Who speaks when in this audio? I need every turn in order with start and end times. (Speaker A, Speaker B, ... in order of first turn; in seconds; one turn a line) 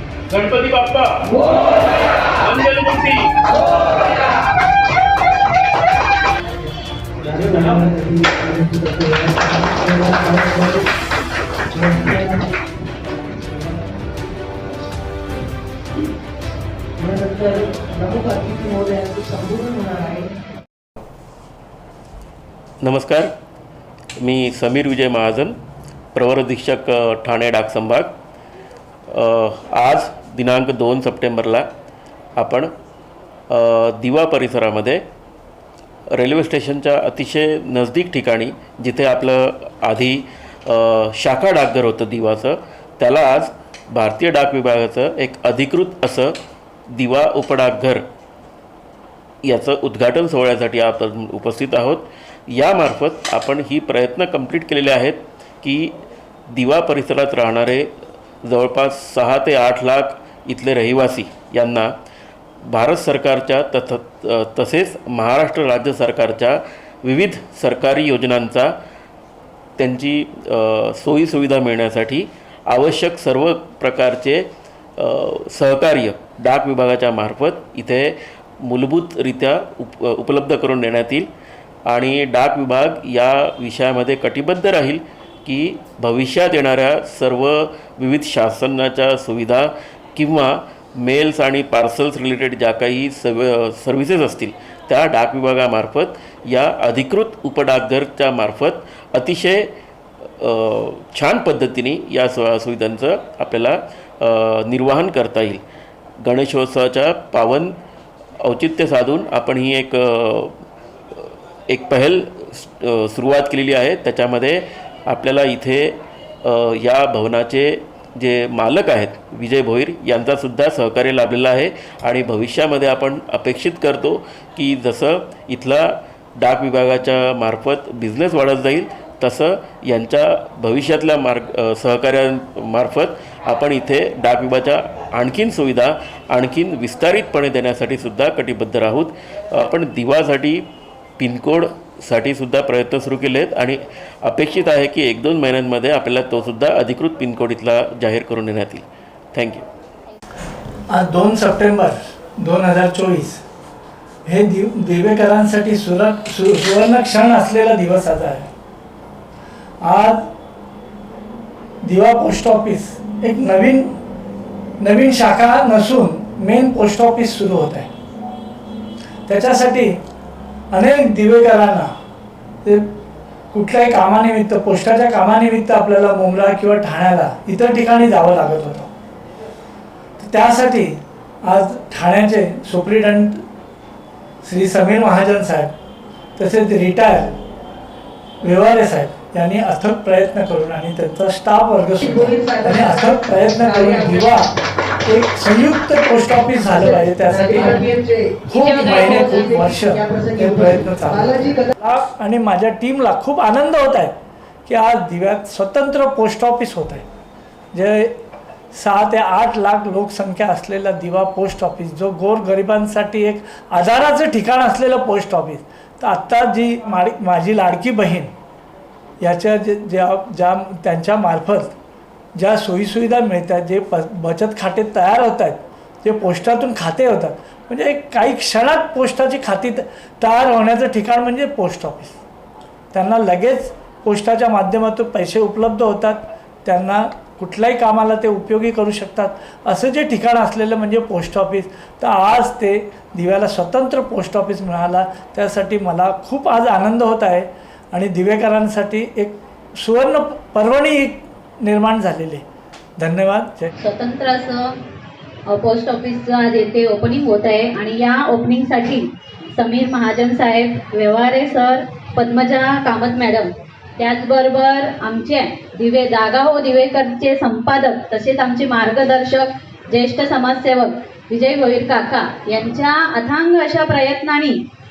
Speaker A: 0.3-3.3
Speaker B: 7.2-10.9
Speaker B: 11.7-12.5
Speaker B: 13.3-13.8
Speaker B: 17.0-20.4
Speaker A: 22.8-23.3
Speaker A: 24.2-25.6
Speaker A: 26.1-28.1
Speaker A: 29.1-31.7
Speaker A: 32.4-32.7
Speaker A: 33.5-35.0
Speaker A: 36.1-46.3
Speaker A: 46.9-48.0
Speaker A: 49.5-56.0
Speaker A: 56.5-57.9
Speaker A: 58.4-61.9
Speaker A: 62.7-68.7
Speaker A: 69.8-74.5
Speaker A: 75.0-81.3
Speaker A: 81.9-99.7
Speaker A: 100.4-105.6
Speaker A: 106.2-107.8
Speaker A: 108.4-110.6
Speaker A: 111.1-140.6
Speaker A: 141.2-149.6
Speaker C: 150.9-153.4
Speaker C: 154.2-158.5
Speaker C: 159.8-160.2
Speaker C: 161.8-163.9
Speaker C: 164.8-167.9
Speaker C: 169.3-170.0
Speaker C: 170.7-171.9
Speaker C: 173.5-178.9
Speaker C: 180.2-183.4
Speaker C: 184.4-185.7
Speaker C: 186.4-187.4
Speaker C: 188.4-194.5
Speaker B: 192.0-194.3
Speaker C: 195.1-197.9
Speaker B: 196.8-201.7
Speaker C: 198.5-207.0
Speaker D: 198.5-199.5
Speaker C: 207.7-208.2
Speaker C: 208.7-218.3
Speaker C: 219.2-221.8
Speaker C: 222.3-232.2
Speaker C: 232.9-252.4
Speaker C: 253.0-253.7
Speaker D: 253.8-254.8
Speaker D: 255.5-274.6